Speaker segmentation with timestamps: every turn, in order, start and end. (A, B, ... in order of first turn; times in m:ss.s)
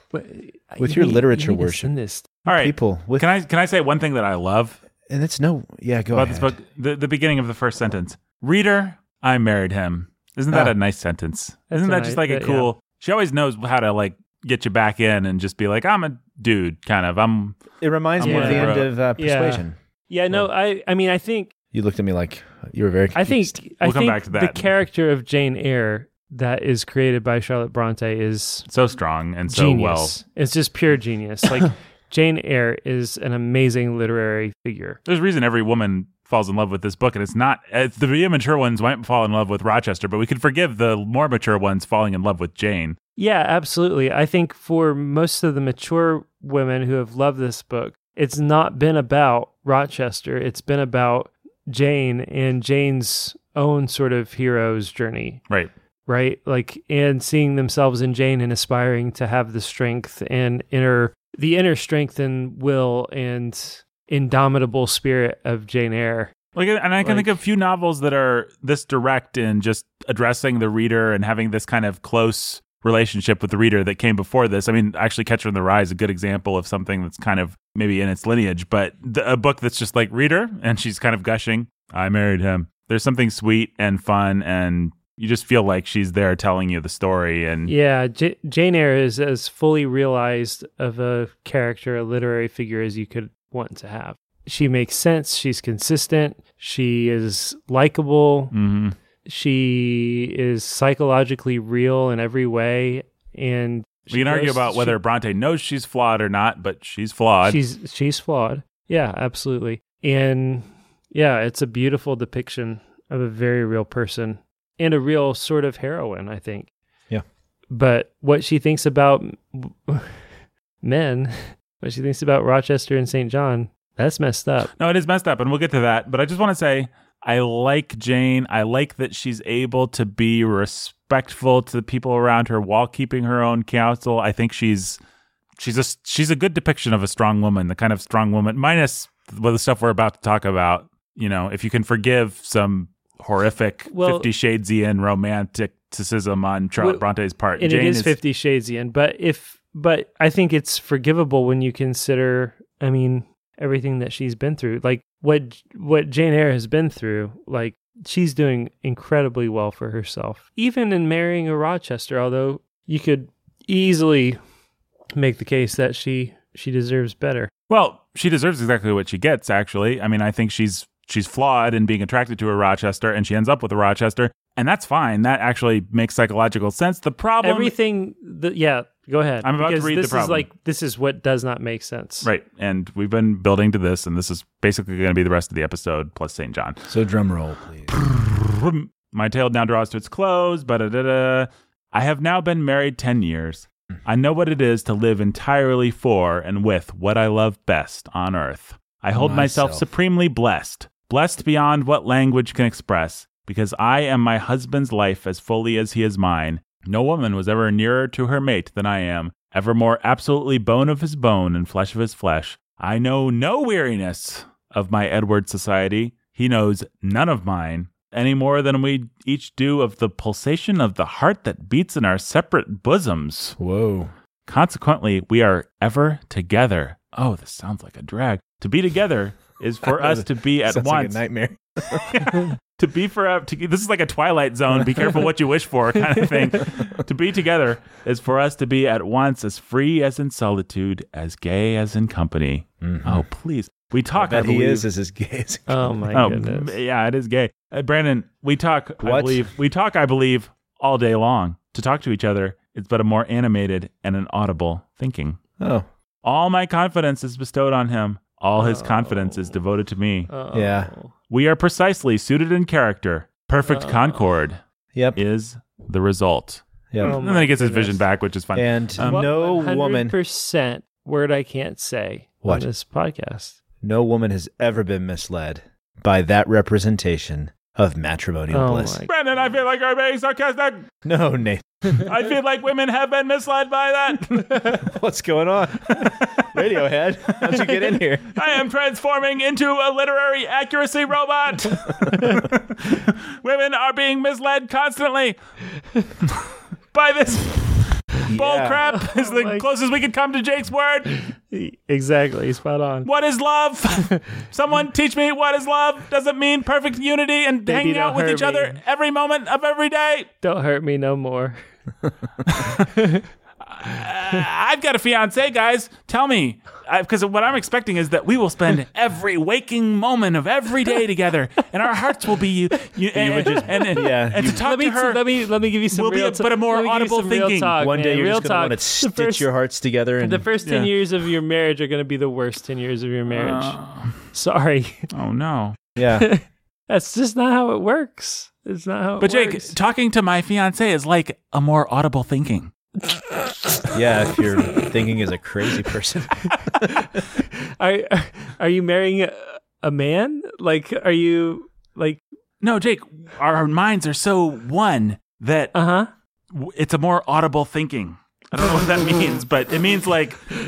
0:00.1-0:02.3 A
0:00.8-0:01.9 B
0:02.4-0:04.8 C
0:02.6-0:03.2 B
0:05.1-0:06.5 B
0:06.1-0:17.6 C
0:11.7-0:12.7 A
0:17.8-0:19.8 B
0:18.2-0:18.9 C
0:18.2-0:21.5 A
0:21.7-0:23.6 B
0:23.1-0:28.7 A
0:23.8-0:24.7 C
0:28.7-0:30.2 C
0:29.5-0:35.0 A
0:35.0-0:43.0 C
0:43.2-0:55.4 A
0:56.1-1:06.3 A
1:06.5-1:27.7 C
1:07.0-1:07.3 A
1:27.7-1:38.5 A
1:38.5-1:39.0 C
1:39.2-1:45.0 A
1:44.1-1:47.6 C
1:47.4-1:56.7 A
1:57.7-2:00.2 A
2:00.8-2:04.7 A
2:04.8-2:15.0 C
2:15.6-2:28.2 C
2:23.9-2:24.3 A
2:26.8-2:27.0 A
2:27.6-2:44.4 A
2:45.1-2:47.5 A
2:47.7-2:57.7 C
2:57.4-3:02.3 A
2:59.4-3:00.4 C
3:02.2-3:06.9 C
3:06.9-3:08.0 B
3:07.9-3:43.6 C
3:19.1-3:19.8 B
3:43.6-3:44.1 B
3:44.4-3:51.2 C
3:49.8-3:52.4 B
3:52.0-4:04.8 C
4:02.8-4:03.2 B
4:04.1-4:06.1 B
4:05.7-4:06.7 A
4:06.1-4:15.4 C
4:09.0-4:09.5 B
4:15.6-4:15.8 B
4:16.2-4:20.3 C
4:18.6-4:19.5 A
4:20.3-4:21.1 A
4:20.5-4:20.9 B
4:21.3-4:24.6 C
4:23.7-4:24.2 A
4:25.1-4:29.3 C
4:26.9-4:27.2 B
4:27.0-4:28.0 A
4:28.5-4:30.1 B
4:29.0-4:33.6 A
4:33.8-4:39.0 B
4:38.5-4:39.1 A
4:39.1-4:40.9 C
4:41.0-4:42.1 B
4:42.0-4:44.6 C
4:44.7-4:48.3 B
4:45.9-4:46.5 C
4:48.3-4:55.4 C
4:56.9-5:01.2 C
4:58.3-4:58.8 B
4:58.9-4:59.6 A
5:01.2-5:03.1 A
5:03.0-5:10.3 C
5:07.7-5:08.8 A
5:10.4-5:11.6 A
5:12.4-5:12.9 C
5:12.7-5:13.2 A
5:13.6-5:25.2 C
5:23.1-5:24.6 B
5:24.6-5:29.5 A
5:25.9-5:27.7 C
5:27.8-5:30.4 B
5:30.2-5:33.8 A
5:30.6-5:30.9 C
5:33.3-5:34.2 C
5:34.3-5:35.1 A
5:35.1-5:35.8 C
5:36.0-5:36.3 B
5:36.1-5:39.7 A
5:39.2-5:42.7 C
5:43.3-5:43.8 A
5:43.9-5:47.1 B
5:44.6-5:44.9 A
5:46.8-5:52.2 A
5:52.6-5:55.7 C
5:55.7-5:56.1 A
5:56.5-6:00.5 C